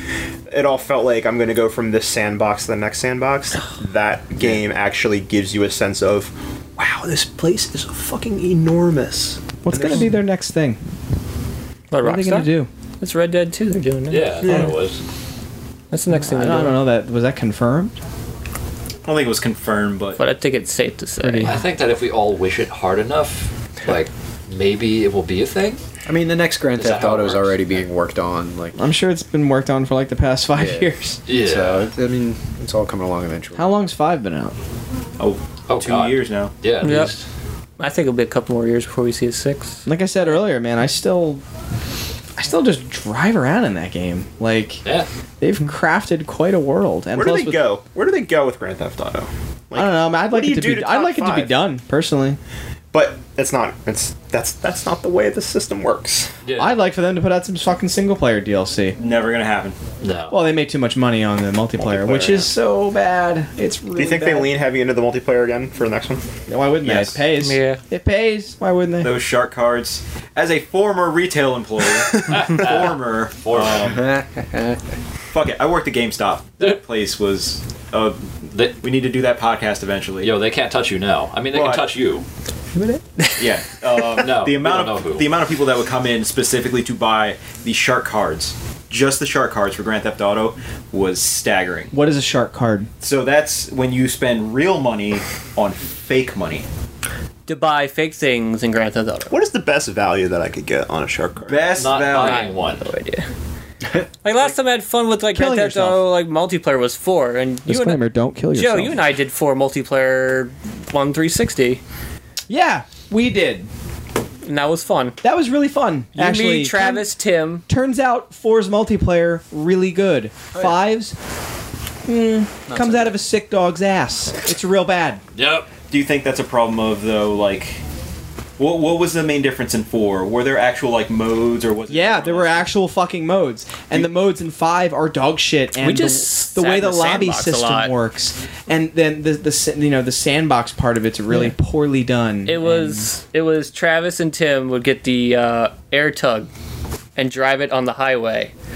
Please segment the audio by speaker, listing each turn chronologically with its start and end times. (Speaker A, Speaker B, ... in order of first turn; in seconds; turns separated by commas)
Speaker A: 0.5-10.1, Speaker B: 9.6-10.8, Speaker C: 11.9-14.6, Speaker B: 12.0-12.7, Speaker D: 14.1-15.0, Speaker C: 15.9-16.8, Speaker B: 16.1-17.9, Speaker E: 19.0-20.2, Speaker C: 20.2-21.6, Speaker B: 21.2-21.6, Speaker D: 21.4-25.8, Speaker F: 26.1-28.8, Speaker D: 26.8-27.6, Speaker B: 28.7-31.2, Speaker F: 30.5-33.7, Speaker D: 31.3-31.9, Speaker B: 33.5-34.5, Speaker E: 35.2-36.5, Speaker D: 35.7-37.2, Speaker C: 36.8-37.1, Speaker C: 37.8-39.9, Speaker B: 39.9-41.4, Speaker B: 42.4-44.8, Speaker B: 45.4-47.6, Speaker A: 47.1-51.5, Speaker B: 49.7-52.4, Speaker A: 52.9-56.3, Speaker D: 56.4-56.7, Speaker B: 56.5-59.0, Speaker E: 59.0-59.8, Speaker D: 60.0-60.4, Speaker B: 60.3-64.5, Speaker A: 61.8-62.5, Speaker A: 63.9-66.2, Speaker B: 66.5-69.2, Speaker E: 66.8-67.2, Speaker C: 67.4-67.8, Speaker E: 69.0-74.2, Speaker D: 72.3-74.0, Speaker F: 74.0-74.8, Speaker E: 75.3-78.2, Speaker D: 78.5-78.8, Speaker E: 78.8-80.3, Speaker D: 80.2-82.2, Speaker E: 81.5-81.8, Speaker E: 83.4-91.9, Speaker D: 84.1-85.3, Speaker B: 91.9-92.9, Speaker E: 93.0-96.7, Speaker C: 97.5-99.3, Speaker A: 99.3-101.7, Speaker E: 101.5-102.5, Speaker D: 101.7-102.8, Speaker C: 102.1-103.3, Speaker C: 104.2-108.0, Speaker B: 105.3-106.0, Speaker B: 107.7-109.0, Speaker C: 108.5-111.8, Speaker B: 112.5-113.7, Speaker C: 114.4-115.2, Speaker B: 115.2-117.1, Speaker C: 116.1-117.6, Speaker B: 117.7-121.1, Speaker B: 122.0-125.2, Speaker F: 122.7-123.1, Speaker D: 125.3-125.7, Speaker E: 125.8-127.8, Speaker E: 128.6-132.7, Speaker B: 131.9-143.1, Speaker C: 135.8-137.9, Speaker C: 142.5-146.5, Speaker C: 147.2-148.5